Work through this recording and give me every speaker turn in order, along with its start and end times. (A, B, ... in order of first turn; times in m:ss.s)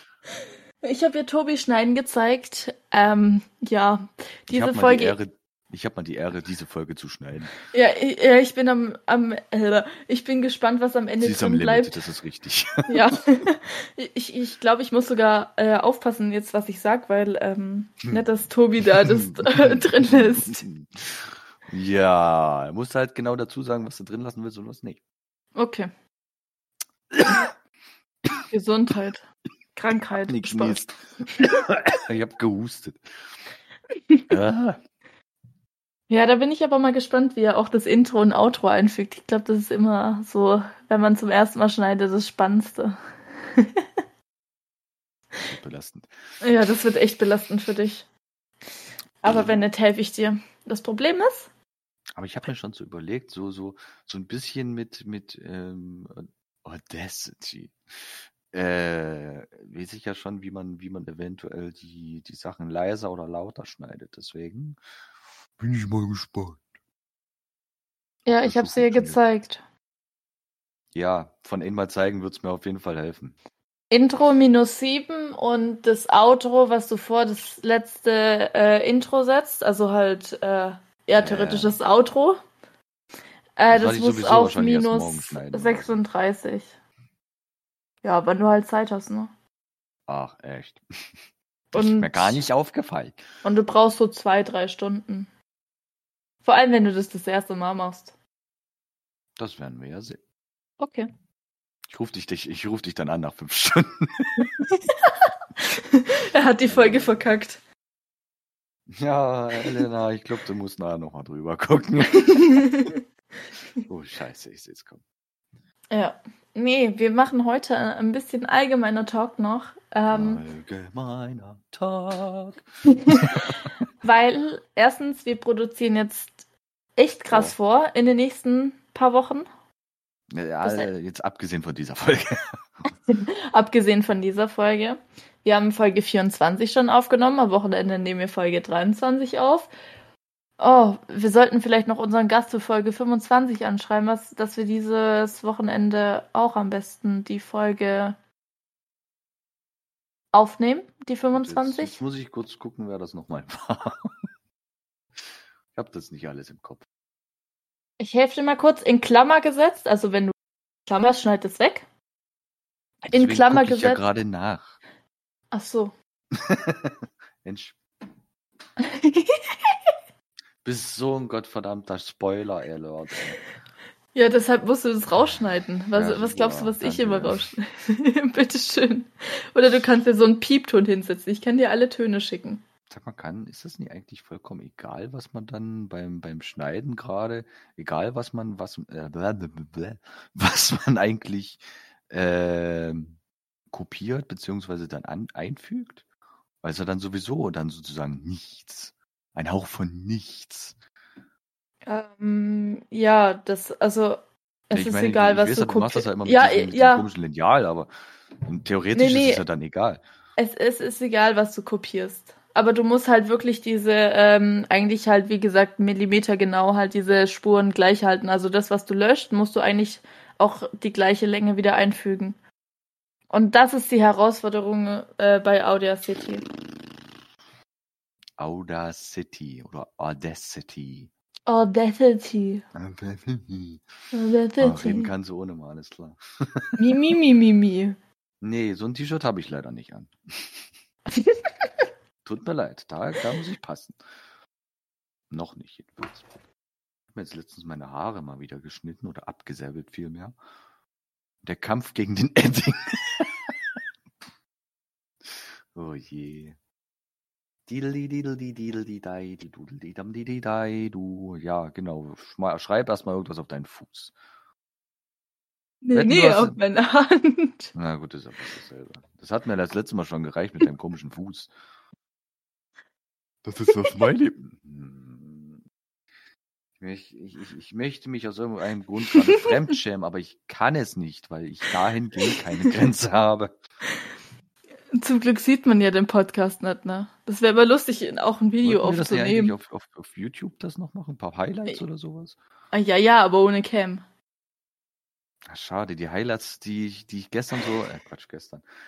0:00.8-0:05.2 A
0:04.5-0:07.5 B
0:07.7-0:12.0 A
0:11.2-0:12.9 B
0:12.9-0:20.6 A
0:18.8-0:25.0 B
0:25.5-0:25.9 A
0:27.1-0:27.5 B
0:28.5-0:30.8 A
0:30.1-0:33.0 B
0:34.3-0:34.8 B
0:36.1-0:43.9 A
0:45.4-0:46.1 B
0:46.4-0:48.1 A
0:49.2-0:51.5 A
0:52.2-0:57.8 B
0:58.5-1:04.8 B
1:05.6-1:06.7 B
1:08.2-1:09.6 A
1:08.4-1:09.2 B
1:10.9-1:13.4 B
1:13.9-1:22.4 A
1:21.2-1:21.8 B
1:23.6-1:26.8 A
1:23.7-1:26.0 B
1:28.0-1:29.3 A
1:30.1-1:30.8 B
1:31.7-1:32.4 A
1:31.7-1:33.2 B
1:33.4-1:35.3 A
1:36.4-1:38.2 A
1:39.4-1:40.2 B
1:40.8-1:41.1 A
1:41.9-1:44.5 B
1:44.9-1:47.6 A
1:46.7-1:47.4 B
1:48.9-1:52.5 B
1:52.3-1:53.0 A
1:53.9-1:55.0 B
1:55.9-2:00.4 A
2:00.1-2:03.7 B
2:04.0-2:09.5 A
2:07.3-2:07.6 B
2:10.3-2:12.6 B
2:10.6-2:10.9 A
2:13.1-2:19.7 A
2:20.6-2:28.2 A
2:30.3-2:32.0 A
2:31.3-2:34.3 B
2:35.7-2:36.8 B
2:38.0-2:41.9 A
2:43.0-2:44.8 B
2:43.1-2:44.0 A
2:45.5-2:45.9 A
2:46.3-2:47.8 B
2:48.8-2:49.9 A
2:50.6-2:53.4 B
2:54.1-3:02.6 A
2:55.9-2:57.5 B
3:02.9-3:13.2 B
3:13.7-3:16.0 B
3:16.6-3:20.8 B
3:21.8-3:27.1 A
3:24.7-3:27.9 B
3:28.4-3:30.0 B
3:28.9-3:29.4 A
3:30.4-3:42.4 A
3:43.3-3:46.4 A
3:48.4-3:51.1 B
3:51.4-3:52.6 A
3:52.7-3:53.8 B
3:54.1-3:55.1 A
3:54.6-3:56.8 B
3:56.8-3:58.0 A
3:58.4-4:00.6 B
4:01.1-4:01.9 A
4:02.2-4:04.0 B
4:05.3-4:06.3 B
4:07.1-4:10.4 B
4:11.4-4:13.5 B
4:15.2-4:16.6 B
4:17.7-4:24.1 B
4:25.8-4:27.7 A
4:25.9-4:26.6 B
4:27.7-4:31.5 B
4:33.4-4:35.6 B
4:36.8-4:43.5 B
4:42.3-4:42.7 A
4:45.0-4:49.6 A
4:48.6-4:52.4 B
4:52.7-4:54.0 A
4:55.5-4:58.6 B